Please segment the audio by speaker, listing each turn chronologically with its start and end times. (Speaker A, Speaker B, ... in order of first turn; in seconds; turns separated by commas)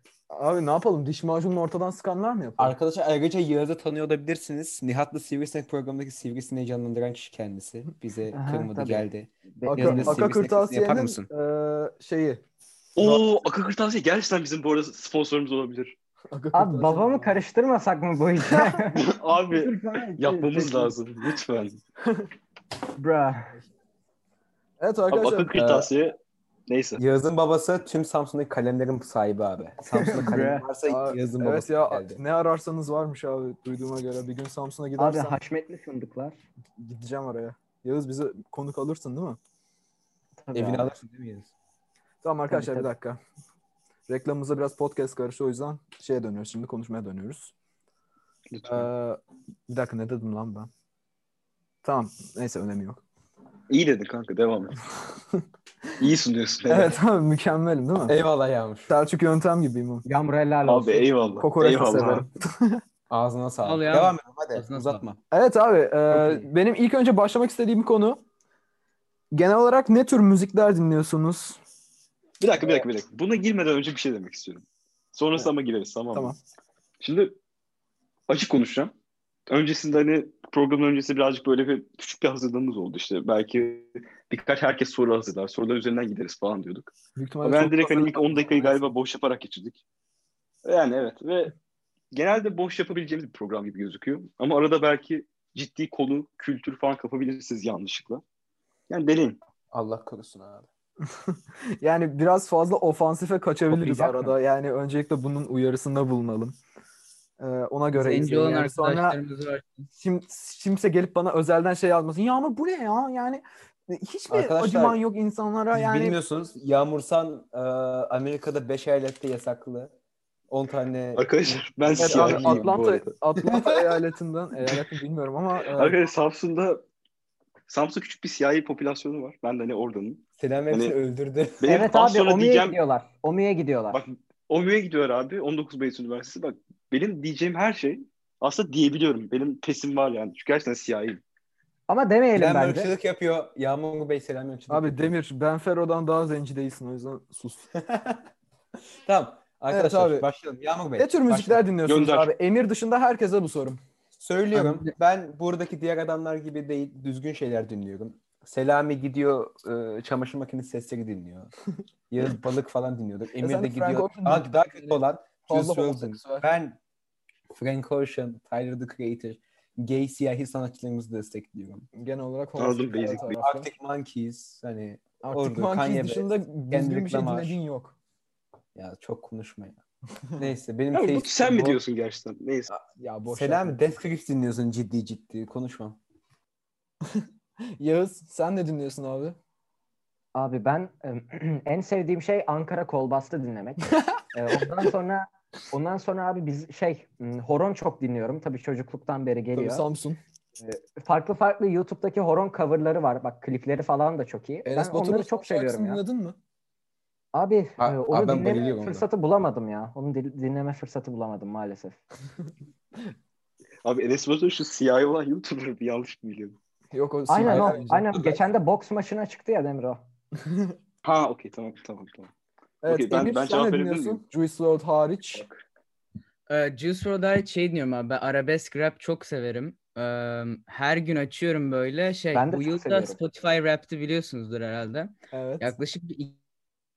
Speaker A: 0.3-2.7, Speaker B: 2.6-11.2, Speaker C: 8.3-10.2, Speaker A: 9.7-12.4, Speaker D: 12.9-15.9, Speaker A: 16.3-17.4, Speaker C: 16.5-20.9, Speaker A: 18.5-18.9, Speaker D: 18.9-21.8, Speaker C: 23.0-23.5, Speaker A: 24.8-25.6, Speaker D: 25.1-27.0, Speaker B: 25.5-25.9, Speaker B: 27.0-32.2, Speaker C: 29.9-30.6, Speaker A: 30.9-35.4, Speaker C: 35.0-36.4, Speaker A: 36.8-39.4, Speaker C: 40.4-40.9, Speaker B: 40.5-41.5, Speaker A: 42.2-43.2, Speaker C: 42.5-42.9, Speaker A: 44.1-47.5, Speaker D: 48.5-48.9, Speaker A: 48.6-50.7, Speaker A: 51.8-53.0, Speaker D: 53.7-54.8, Speaker D: 56.0-57.0, Speaker A: 56.7-58.2, Speaker B: 58.0-58.9, Speaker A: 58.9-60.0, Speaker C: 60.0-61.4, Speaker D: 60.6-62.3, Speaker A: 61.4-62.8, Speaker B: 63.1-65.2, Speaker E: 63.6-65.1, Speaker A: 65.3-68.2, Speaker B: 66.1-66.5, Speaker A: 69.3-71.6, Speaker D: 72.4-76.3, Speaker A: 72.6-72.8, Speaker A: 76.1-76.4, Speaker D: 77.0-77.4, Speaker D: 78.3-78.9, Speaker D: 79.5-89.8, Speaker A: 87.2-88.9, Speaker D: 90.6-91.5, Speaker D: 92.1-98.2, Speaker D: 98.9-99.4, Speaker B: 99.7-100.7, Speaker A: 101.0-106.5, Speaker B: 103.7-104.3, Speaker A: 107.4-109.2, Speaker E: 107.9-109.9, Speaker A: 109.9-116.2, Speaker B: 114.3-115.0, Speaker B: 115.7-119.9, Speaker B: 120.5-122.8, Speaker D: 121.1-123.1, Speaker A: 122.0-126.0, Speaker D: 125.7-126.8, Speaker D: 127.7-130.9, Speaker B: 130.4-131.7, Speaker D: 131.6-132.8, Speaker C: 131.6-134.0, Speaker D: 133.9-141.2, Speaker C: 141.9-142.9, Speaker B: 142.3-145.1, Speaker A: 144.7-147.6, Speaker B: 147.8-148.2, Speaker B: 149.1-151.7, Speaker A: 149.7-150.3, Speaker A: 151.0-153.8, Speaker D: 151.8-152.3, Speaker B: 154.2-161.5, Speaker E: 154.5-154.9, Speaker B: 162.1-166.8, Speaker A: 163.4-166.4, Speaker B: 167.5-171.9, Speaker A: 171.9-173.7, Speaker D: 172.6-173.4, Speaker B: 173.3-177.6, Speaker A: 175.2-177.9, Speaker B: 178.7-179.8, Speaker B: 180.4-181.8, Speaker D: 180.9-182.7, Speaker B: 182.7-186.0, Speaker A: 183.0-183.8, Speaker A: 187.8-189.3, Speaker C: 190.3-199.8, Speaker A: 199.5-200.2, Speaker C: 200.6-206.0, Speaker A: 204.6-206.4, Speaker C: 207.3-212.0, Speaker B: 207.8-209.1, Speaker D: 213.8-216.6, Speaker A: 216.9-218.0, Speaker C: 217.3-220.0, Speaker B: 217.4-218.4, Speaker A: 220.4-220.7, Speaker D: 221.0-222.3, Speaker A: 222.8-225.4, Speaker D: 222.9-224.2, Speaker D: 225.3-225.6, Speaker E: 226.5-236.4, Speaker C: 232.3-233.2, Speaker A: 235.3-235.7